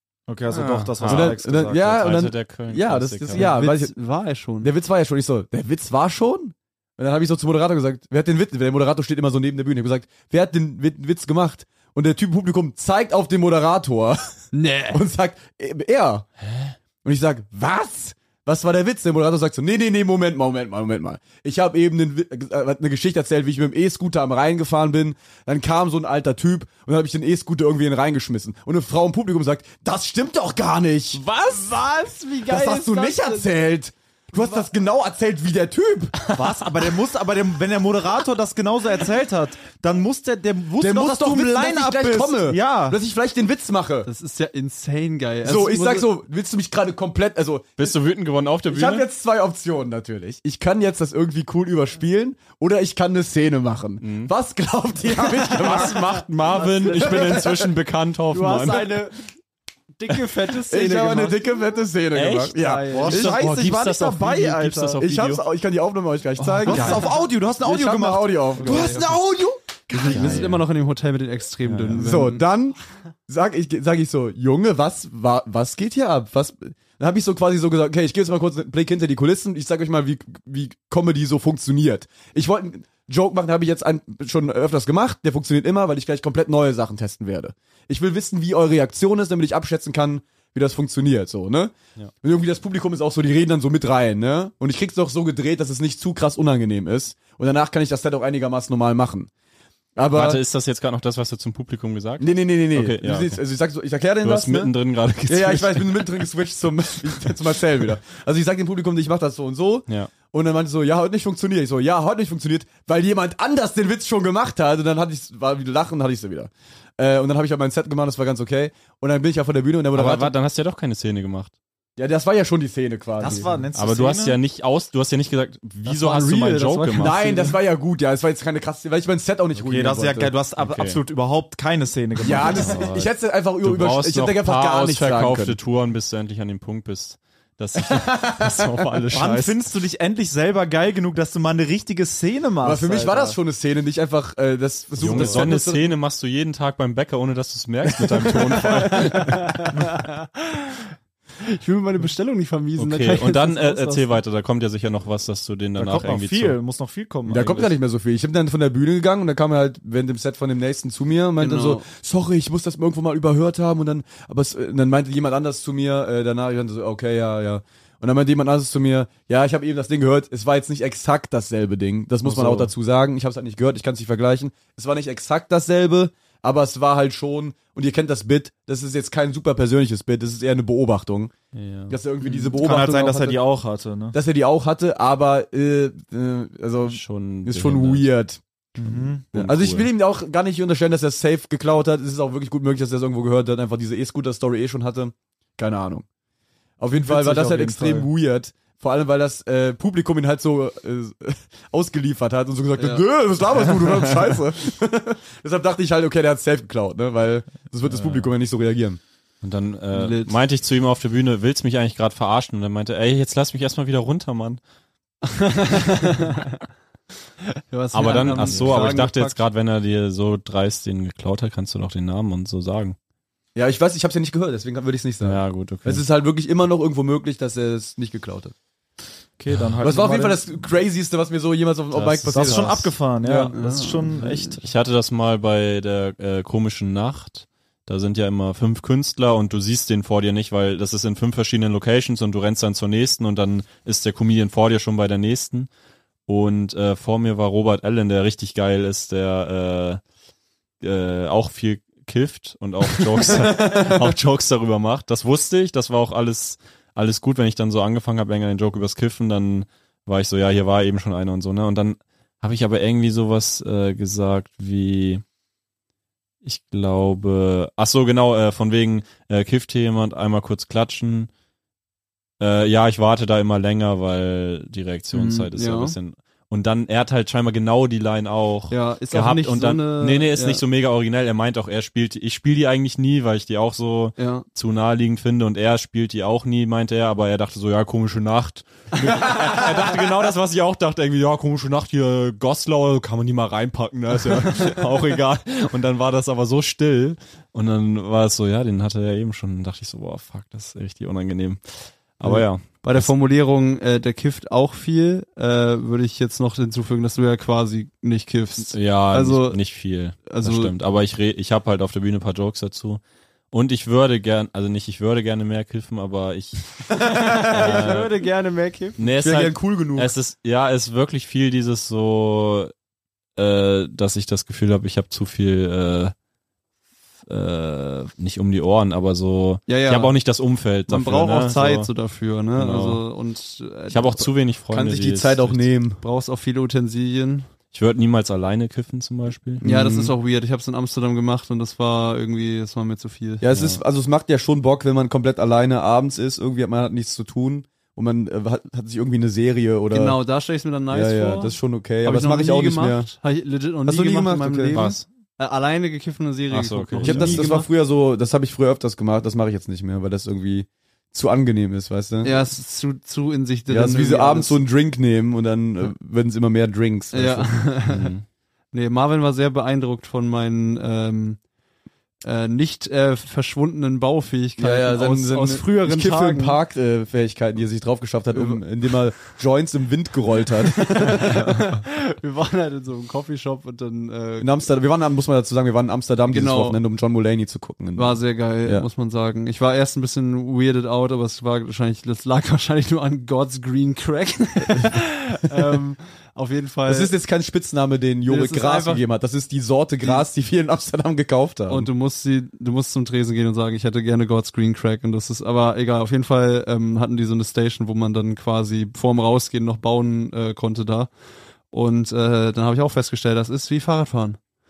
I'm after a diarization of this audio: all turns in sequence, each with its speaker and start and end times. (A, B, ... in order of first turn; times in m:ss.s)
0:00.3-0:02.0 A
0:00.5-0:03.5 B
0:01.1-0:04.0 C
0:03.3-0:04.7 D
0:04.6-0:16.3 C
0:14.5-0:15.0 D
0:16.5-0:16.8 B
0:17.0-0:31.2 C
0:31.1-0:31.8 A
0:31.5-0:33.5 D
0:32.5-0:36.2 C
0:36.3-0:43.0 A
0:40.8-0:44.1 C
0:44.1-0:46.1 D
0:45.4-0:48.0 C
0:47.8-0:49.1 B
0:48.7-0:56.2 C
0:54.0-0:54.3 B
0:55.5-0:59.1 B
0:55.6-0:57.4 D
0:56.9-0:57.7 C
0:58.3-0:59.2 D
1:00.0-1:01.4 D
1:00.7-1:03.5 C
1:02.1-1:05.4 B
1:02.6-1:03.5 D
1:02.9-1:05.0 A
1:05.0-1:09.0 C
1:06.6-1:10.4 A
1:06.7-1:07.0 D
1:08.6-1:09.3 D
1:09.9-1:12.5 D
1:10.1-1:10.6 C
1:10.1-1:10.6 B
1:11.6-1:12.2 B
1:12.0-1:12.8 C
1:13.3-1:39.3 C
1:40.0-1:40.4 C
1:40.1-1:43.4 B
1:42.2-1:44.8 C
1:44.2-1:46.3 B
1:45.3-2:00.3 C
1:59.9-2:01.5 B
2:02.0-2:03.5 C
2:03.2-2:04.4 A
2:03.8-2:07.2 B
2:05.9-2:07.5 A
2:07.0-2:10.4 C
2:09.6-2:12.9 A
2:10.6-2:11.0 B
2:12.2-2:15.6 C
2:12.2-2:19.6 B
2:19.1-2:23.4 A
2:22.6-2:25.8 C
2:25.0-2:29.6 B
2:25.1-2:25.7 D
2:28.5-2:30.9 D
2:31.4-2:34.1 D
2:32.8-2:36.6 B
2:35.8-2:37.7 A
2:37.3-3:01.3 C
2:41.4-2:41.9 D
2:52.2-2:52.7 B
3:01.5-3:02.0 B
3:01.9-3:03.4 C
3:02.6-3:04.2 A
3:04.1-3:08.4 C
3:06.8-3:08.1 B
3:08.8-3:09.2 A
3:09.3-3:09.9 B
3:09.3-3:16.1 C
3:16.8-3:29.0 C
3:16.9-3:18.1 A
3:22.8-3:23.0 D
3:27.8-3:28.3 B
3:29.4-3:34.6 B
3:29.9-3:30.4 D
3:35.2-3:36.6 D
3:37.7-3:39.4 D
3:37.9-3:43.0 B
3:38.4-3:38.9 C
3:43.6-3:48.5 C
3:45.2-3:46.0 B
3:49.4-3:50.4 A
3:49.8-3:53.5 C
3:51.9-3:52.9 B
3:52.3-3:54.6 A
3:53.6-3:54.0 D
3:54.4-4:05.7 B
4:06.3-4:10.0 B
4:10.8-4:25.2 B
4:26.4-4:31.3 B
4:32.4-5:03.1 B
4:35.1-4:36.0 D
4:38.7-4:40.6 D
4:44.2-4:44.5 D
5:02.3-5:09.6 D
5:08.7-5:18.1 B
5:10.3-5:10.7 D
5:17.0-5:19.0 D
5:17.3-5:17.8 C
5:19.0-5:22.7 B
5:19.2-5:20.1 C
5:23.4-5:26.1 B
5:27.3-5:31.9 B
5:29.7-5:30.2 D
5:30.9-5:34.3 D
5:32.6-5:33.0 B
5:33.9-5:35.6 B
5:34.7-5:36.0 C
5:36.0-5:37.5 D
5:37.7-5:39.6 B
5:39.6-5:40.1 C
5:39.6-5:43.4 D
5:43.4-5:50.2 C
5:43.5-5:43.8 B
5:49.9-5:57.7 D
5:50.9-5:53.1 C
5:53.9-5:54.8 C
5:54.7-5:55.0 B
5:56.5-5:57.4 B
5:57.0-6:02.4 C
6:02.2-6:04.6 D
6:03.7-6:07.6 C
6:07.1-6:08.1 D
6:07.9-6:08.2 B
6:08.7-6:11.4 D
6:12.2-6:16.6 D
6:14.6-6:21.6 C
6:18.3-6:18.6 D
6:20.7-6:24.7 D
6:24.4-6:28.9 C
6:26.3-6:26.8 D
6:28.0-6:37.1 D
6:36.9-6:41.9 C
6:38.3-6:39.0 D
6:40.0-6:40.3 D
6:41.7-6:51.1 D
6:51.7-6:54.4 D